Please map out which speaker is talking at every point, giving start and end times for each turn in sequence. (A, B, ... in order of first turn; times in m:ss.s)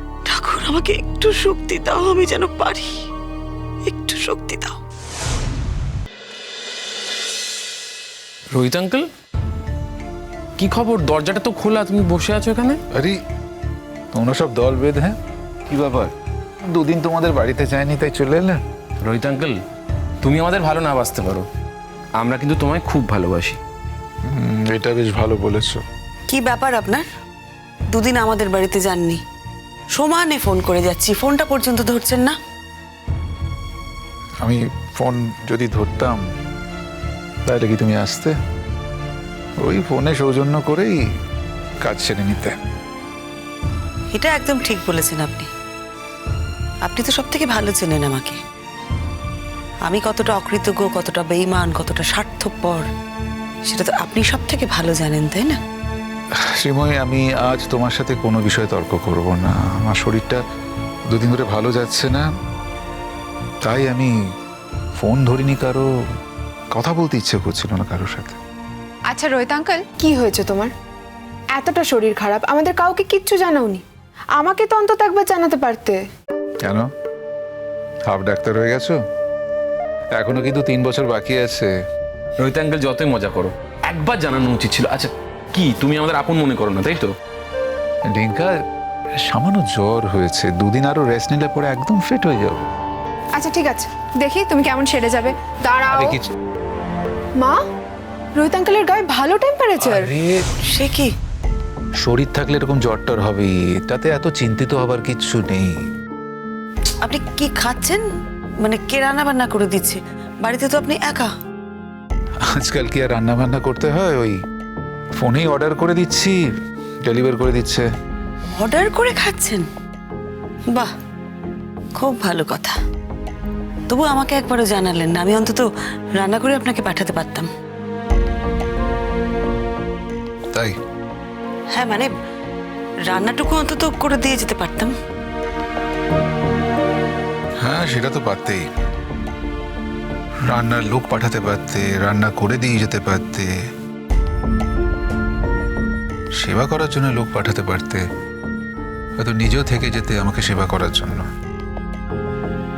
0:00.3-0:02.9 A
0:03.9-0:04.8 A
0:08.5-0:09.1 B
0:10.6-0:12.8 B
0:12.9-0:13.2 C
0:14.1-0:15.2 C
0:15.7-0:16.1 C
0:16.7-0:18.6 C
0:19.0-0:19.6 B
0:20.2-0:21.5 B
0:22.2-0:23.6 B
0:24.3-0:25.8 C
0:26.3-0:27.1 A
0:27.9-0:29.2 A
0:30.0-0:32.4 A
0:34.4-0:36.2 C
0:37.5-0:38.4 C
0:39.6-0:41.0 C
0:41.8-0:42.6 C
0:44.1-0:45.5 A
0:46.9-0:48.4 A
0:49.9-0:52.9 A
0:53.7-0:55.6 A
0:56.4-1:00.4 C
1:01.1-1:02.3 C
1:03.6-1:04.1 C
1:05.0-1:05.9 C
1:06.7-1:08.4 C
1:09.1-1:10.7 D
1:11.5-1:13.8 D
1:14.4-1:16.0 D
1:18.1-1:19.0 C
1:20.2-1:21.7 C
1:22.4-1:27.1 B
1:28.1-1:28.5 C
1:29.3-1:32.7 C
1:33.4-1:36.2 D
1:35.9-1:36.2 C
1:38.4-1:40.1 D
1:39.8-1:40.4 C
1:40.7-1:41.1 A
1:42.0-1:45.7 C
1:47.0-1:48.0 A
1:48.6-1:51.3 A
1:52.5-1:54.4 C
1:55.2-1:56.4 C
1:57.1-1:57.9 C
1:58.6-1:59.7 A
2:02.0-2:02.8 A
2:03.9-2:05.6 A
2:06.2-2:07.5 A
2:11.7-2:12.1 A
2:13.1-2:14.9 A
2:17.6-2:18.6 C
2:20.5-2:23.5 C
2:26.4-2:28.0 C
2:29.2-2:31.3 C